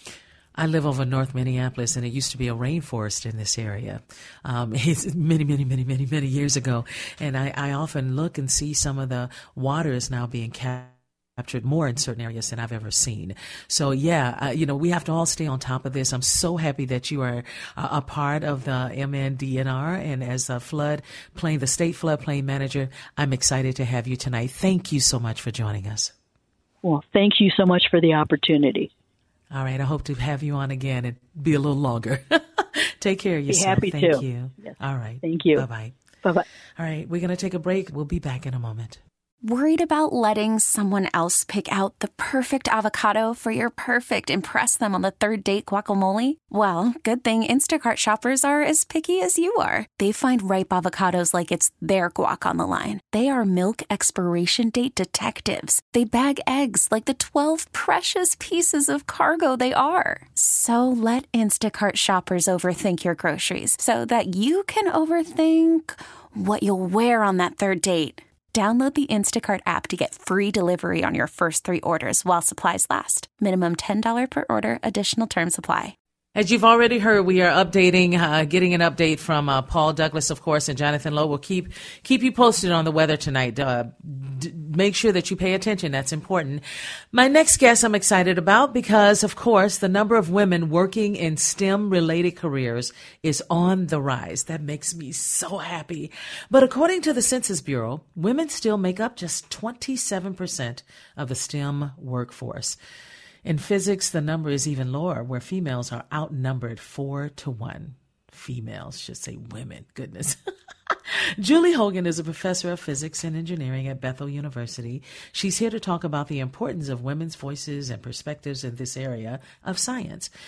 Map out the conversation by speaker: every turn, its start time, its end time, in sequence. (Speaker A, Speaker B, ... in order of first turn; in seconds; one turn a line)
Speaker A: 0.6-26.1
Speaker B: 26.8-28.9
Speaker A: 29.5-35.9
Speaker B: 33.5-35.6
Speaker A: 36.8-39.0
Speaker C: 39.4-75.9
Speaker A: 76.3-102.8
Speaker A: 103.4-110.4
Speaker A: 110.9-120.3